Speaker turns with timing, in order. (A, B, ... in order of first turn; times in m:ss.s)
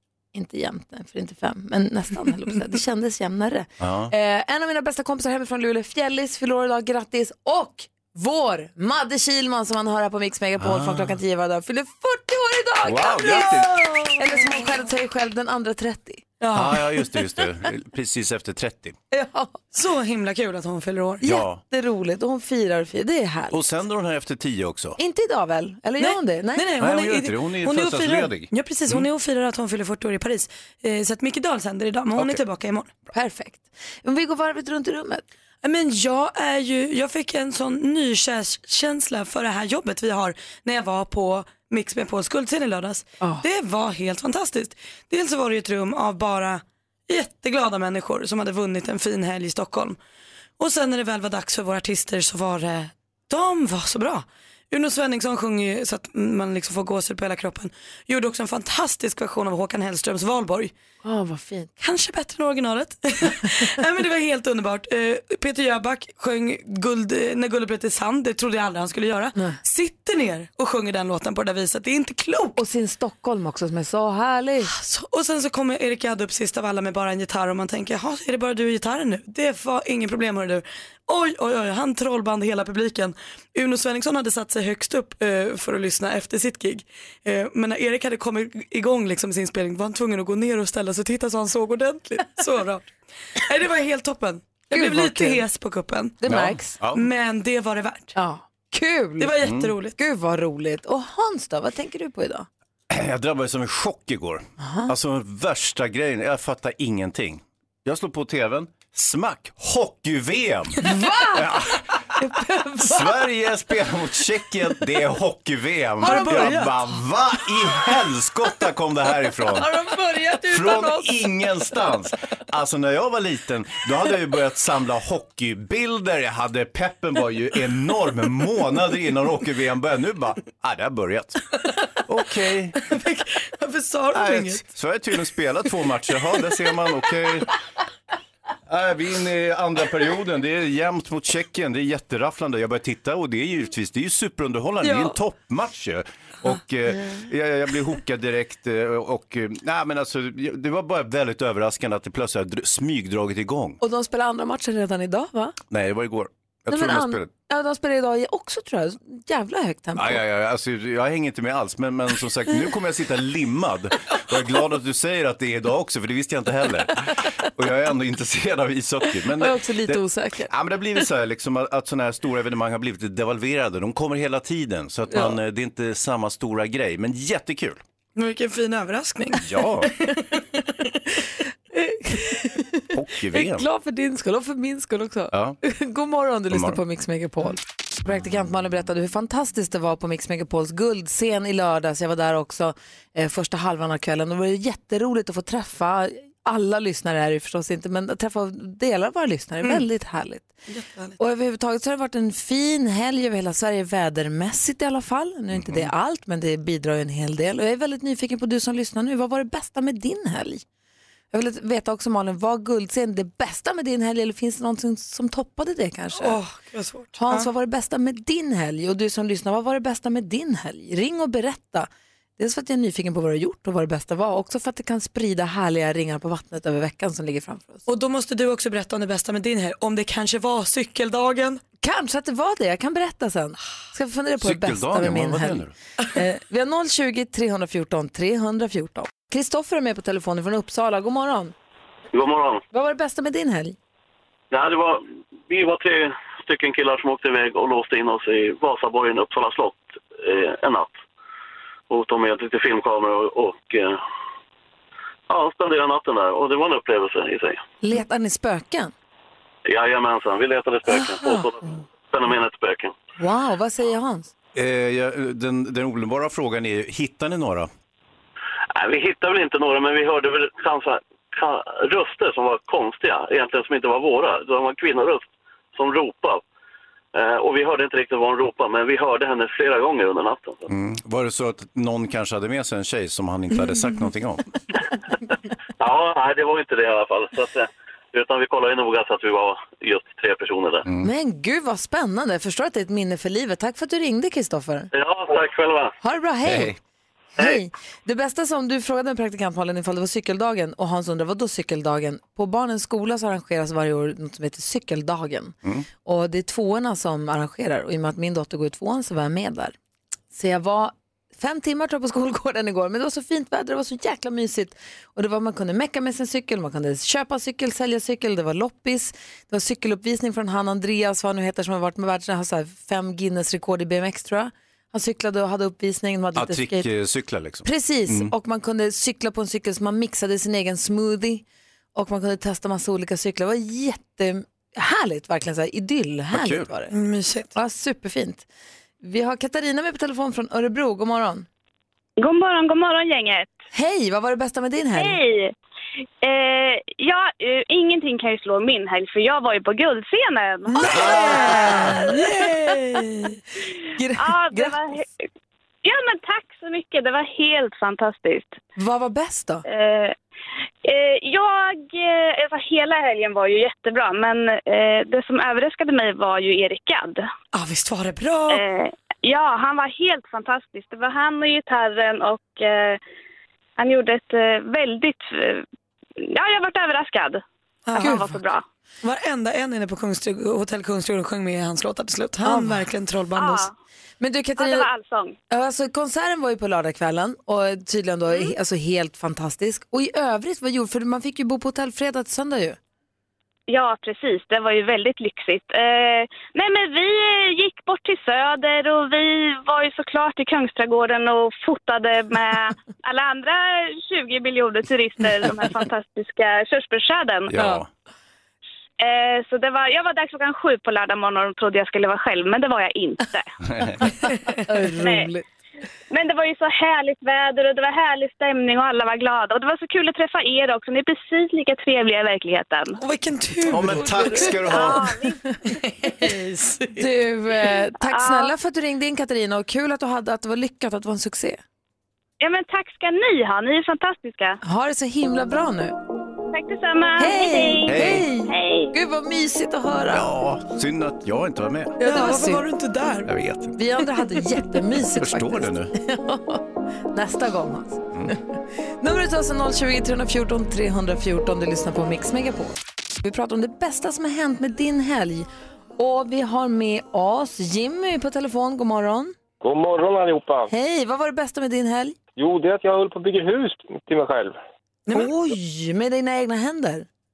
0:00.3-0:16.3 A
0:03.8-0:04.1 B
0:10.6-0:11.2 B
0:12.8-0:13.7 B
0:13.2-0:14.6 C
0:16.4-0:16.8 C
0:16.5-0:19.0 B
0:19.1-0:19.6 A
0:19.7-0:21.2 C
0:21.2-0:23.6 A
0:21.2-0:21.6 B
0:23.5-0:25.0 B
0:25.0-0:26.8 A
0:26.0-0:32.9 C
0:26.8-0:29.1 B
0:32.2-0:32.4 B
0:33.1-0:35.3 A
0:35.6-0:50.0 C
0:50.6-1:00.7 C
1:01.0-1:01.7 A
1:01.8-1:12.6 C
1:12.6-1:14.7 A
1:14.7-1:36.2 C
1:34.7-1:35.4 A
1:36.2-1:36.8 A
1:36.3-1:37.0 B
1:36.9-1:38.2 C
1:38.2-1:39.4 A
1:39.2-1:40.0 C
1:39.4-1:39.7 B
1:40.0-1:42.5 A
1:42.9-1:50.8 B
1:44.6-1:44.9 A
1:50.8-1:51.4 A
1:51.3-1:51.9 B
1:52.2-1:53.0 A
1:52.8-1:59.7 B
1:56.0-1:56.9 C
1:56.0-1:56.5 A
1:59.6-2:01.1 A
2:00.5-2:11.4 B
2:12.1-2:12.8 B
2:12.8-2:14.6 C
2:14.1-2:17.5 B
2:18.7-2:33.8 B
2:33.8-2:35.6 A
2:35.7-2:37.3 B
2:36.7-2:40.2 A
2:40.0-2:57.8 B
2:49.4-2:50.5 A
2:55.1-2:55.4 A
2:58.2-3:00.3 C
2:59.4-2:59.9 B
3:01.7-3:20.6 A
3:02.9-3:03.7 B
3:05.3-3:05.6 B
3:06.5-3:06.8 B
3:20.7-3:21.2 C
3:21.2-3:30.6 A
3:25.5-3:25.9 B
3:31.3-3:36.4 A
3:36.2-3:37.5 C
3:37.2-3:47.8 A
3:47.9-3:51.6 C
3:51.8-4:01.5 A
3:54.4-3:55.7 B
4:02.1-4:02.6 D
4:02.7-4:03.8 A
4:04.5-4:11.0 D
4:11.9-4:14.0 D
4:15.3-4:17.6 D
4:17.8-4:18.9 A
4:19.7-4:23.0 D
4:20.9-4:21.5 A
4:23.2-4:24.3 A
4:24.6-4:27.7 B
4:28.7-4:36.4 D
4:37.1-4:40.7 D
4:40.7-4:44.5 B
4:45.8-4:50.9 D
4:50.8-4:51.1 B
4:51.0-4:54.9 A
4:54.9-4:55.9 D
4:56.0-4:56.8 A
4:56.4-4:56.8 B
4:57.4-5:09.8 A
5:10.3-5:26.9 A
5:26.4-5:28.3 B
5:27.6-5:31.4 A
5:32.0-5:36.9 A
5:36.3-5:36.7 B
5:36.9-5:37.5 C
5:37.5-5:38.5 A
5:39.0-5:41.5 A
5:42.2-5:43.6 E
5:43.7-5:45.2 A
5:45.0-5:45.6 E
5:46.2-5:51.7 E
5:50.7-5:52.7 A
5:50.8-5:53.4 C
5:54.0-5:54.8 A
5:54.2-5:55.0 E
5:55.8-5:58.6 E
5:58.8-5:59.6 A
5:59.7-6:00.2 E
6:00.8-6:07.3 E
6:07.5-6:08.6 C
6:08.5-6:13.0 E
6:13.8-6:15.6 E
6:16.2-6:17.4 E
6:17.9-6:18.3 C
6:18.0-6:18.6 E
6:18.0-6:18.4 A
6:19.0-6:23.7 C
6:22.4-6:22.9 A
6:23.4-6:23.7 E
6:24.2-6:24.9 A
6:24.6-6:25.4 E
6:25.5-6:32.8 A
6:33.7-6:47.6 E
6:47.5-6:47.9 B
6:49.0-6:53.5 E
6:53.7-6:54.0 B
6:54.7-6:55.4 A
6:55.0-6:55.3 E
6:56.1-7:03.0 E
7:03.0-7:05.0 C
7:03.7-7:05.1 B
7:04.7-7:05.4 E
7:05.6-7:07.1 C
7:07.0-7:11.6 A
7:08.0-7:08.5 E
7:12.4-7:14.6 E
7:14.6-7:16.0 A
7:16.5-7:19.0 E
7:17.2-7:20.3 A
7:17.9-7:18.3 B
7:20.1-7:22.0 B
7:22.0-7:23.3 C
7:22.0-7:22.6 A
7:23.3-7:23.8 B
7:23.8-7:39.4 A
7:25.1-7:25.9 B
7:39.6-7:40.7 F
7:40.7-7:42.2 A
7:42.4-7:44.6 F
7:45.1-7:45.3 C
7:45.1-7:47.1 A